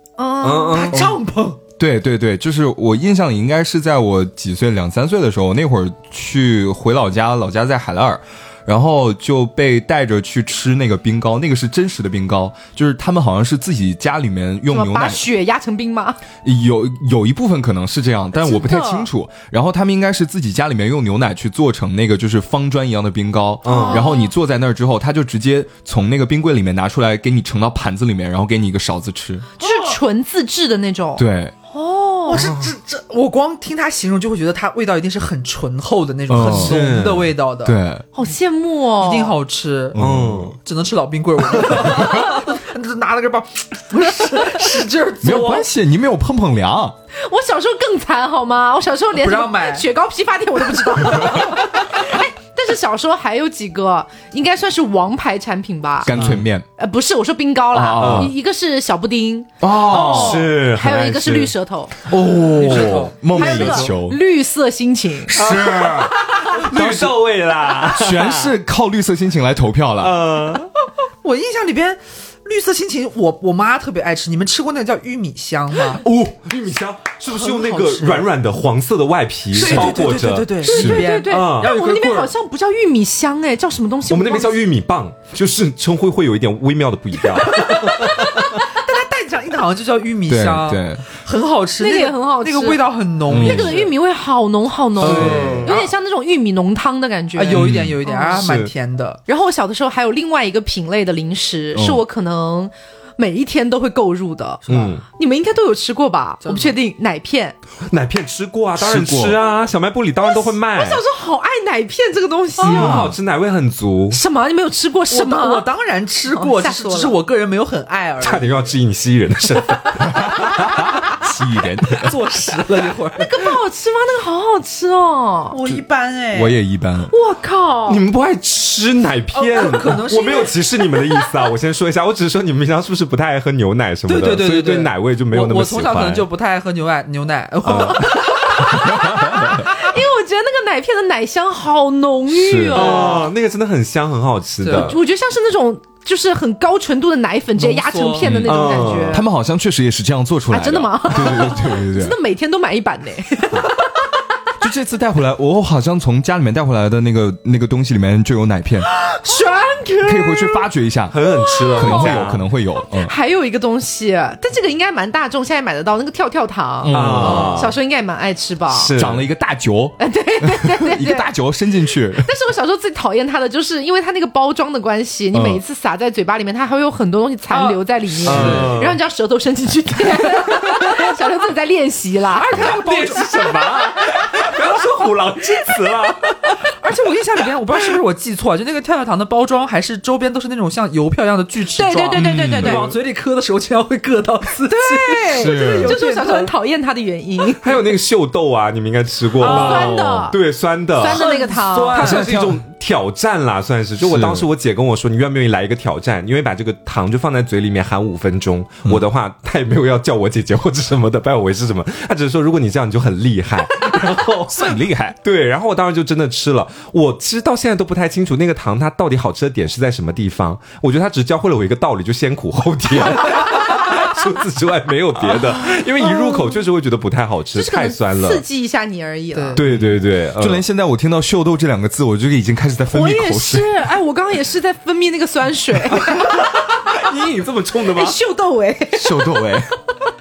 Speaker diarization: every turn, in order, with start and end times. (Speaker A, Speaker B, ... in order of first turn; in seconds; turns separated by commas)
Speaker A: 0.2-0.9, Speaker B: 0.4-1.1, Speaker C: 0.9-1.6, Speaker D: 1.8-15.2, Speaker A: 14.7-16.2, Speaker D: 16.4-29.5, Speaker C: 18.5-18.9, Speaker A: 18.5-19.0, Speaker B: 23.6-24.1, Speaker A: 23.6-24.3, Speaker A: 29.6-32.5, Speaker C: 29.6-30.0, Speaker D: 31.2-31.5, Speaker C: 32.3-37.8, Speaker B: 32.3-32.7, Speaker D: 36.3-36.8, Speaker B: 36.5-37.3, Speaker D: 37.6-38.0, Speaker A: 38.1-39.4, Speaker C: 39.0-40.0, Speaker D: 39.9-40.6, Speaker B: 40.0-40.6, Speaker C: 40.6-45.7, Speaker D: 41.8-42.2, Speaker D: 45.2-47.0, Speaker A: 47.2-56.1, Speaker C: 49.2-49.9, Speaker D: 56.0-56.6, Speaker B: 56.1-56.4, Speaker A: 56.8-61.9, Speaker D: 57.7-58.3, Speaker B: 58.0-58.3, Speaker D: 59.6-60.5, Speaker B: 59.9-61.5, Speaker C: 60.0-60.4, Speaker D: 62.1-64.2, Speaker C: 62.3-63.9, Speaker B: 62.7-63.0, Speaker A: 63.3-65.4, Speaker D: 65.3-67.2, Speaker B: 65.4-68.5, Speaker D: 67.8-70.2, Speaker B: 70.0-70.7, Speaker C: 71.2-76.0, Speaker B: 75.9-80.6, Speaker C: 77.3-78.3, Speaker C: 79.5-82.3, Speaker D: 79.6-79.9, Speaker A: 80.6-84.6, Speaker D: 80.7-81.1, Speaker B: 81.2-81.7, Speaker B: 84.1-88.6, Speaker C: 87.4-93.9, Speaker D: 90.3-91.0, Speaker A: 91.8-98.4, Speaker D: 93.3-93.8, Speaker B: 95.0-95.9, Speaker D: 95.0-95.7, Speaker C: 95.3-95.9, Speaker C: 97.4-99.2, Speaker D: 97.5-98.0, Speaker B: 98.3-98.7, Speaker A: 99.3-107.6, Speaker D: 101.7-102.0, Speaker C: 104.7-105.0, Speaker B: 104.7-105.0, Speaker C: 106.4-106.8, Speaker B: 107.9-111.0, Speaker D: 108.8-109.4, Speaker A: 110.2-113.0, Speaker B: 112.6-114.2, Speaker D: 112.6-113.2, Speaker A: 114.1-115.7, Speaker C: 115.1-118.7, Speaker A: 116.3-117.2, Speaker B: 118.2-120.4, Speaker D: 120.6-122.2, Speaker C: 122.0-123.3, Speaker A: 123.2-125.6, Speaker C: 125.5-126.6, Speaker D: 126.3-127.1, Speaker A: 127.1-128.0, Speaker B: 127.9-136.3, Speaker C: 129.3-130.6, Speaker C: 134.1-138.8, Speaker B: 137.7-138.1, Speaker A: 137.8-143.2, Speaker D: 139.1-139.5, Speaker D: 142.3-143.0, Speaker C: 142.7-143.3, Speaker B: 142.7-145.0, Speaker C: 144.6-145.0, Speaker A: 144.7-149.3, Speaker C: 147.6-148.3, Speaker D: 148.2-152.2, Speaker B: 148.5-149.2, Speaker A: 150.5-153.9, Speaker D: 154.6-158.9, Speaker A: 159.0-160.6, Speaker D: 160.1-161.2, Speaker B: 161.1-162.4, Speaker A: 161.4-162.3, Speaker D: 161.7-163.1, Speaker A: 162.9-168.9, Speaker D: 166.8-167.7, Speaker B: 166.9-167.8, Speaker B: 168.7-169.2, Speaker D: 169.0-172.3, Speaker A: 170.0-171.3, Speaker A: 172.2-182.7, Speaker D: 175.3-175.6, Speaker C: 177.5-178.7, Speaker B: 178.2-179.0, Speaker D: 178.3-178.7, Speaker C: 182.3-183.5, Speaker B: 182.6-186.6, Speaker C: 186.8-196.5, Speaker A: 191.8-192.8, Speaker D: 192.2-192.8, Speaker B: 192.6-193.0, Speaker A: 194.7-197.8, Speaker D: 195.3-196.0, Speaker B: 197.6-201.3, Speaker C: 199.4-200.0, Speaker A: 199.4-200.4, Speaker A: 201.0-202.1, Speaker C: 201.1-202.4, Speaker B: 201.9-228.4, Speaker D: 201.9-202.6, Speaker D: 204.0-204.5, Speaker D: 214.5-215.2, Speaker D: 225.2-225.5, Speaker A: 226.0-226.6, Speaker A: 227.6-229.6, Speaker C: 229.3-229.6, Speaker B: 229.5-230.6, Speaker D: 229.7-233.7, Speaker A: 232.9-236.9, Speaker B: 235.9-238.2, Speaker A: 237.9-239.6, Speaker D: 238.9-239.7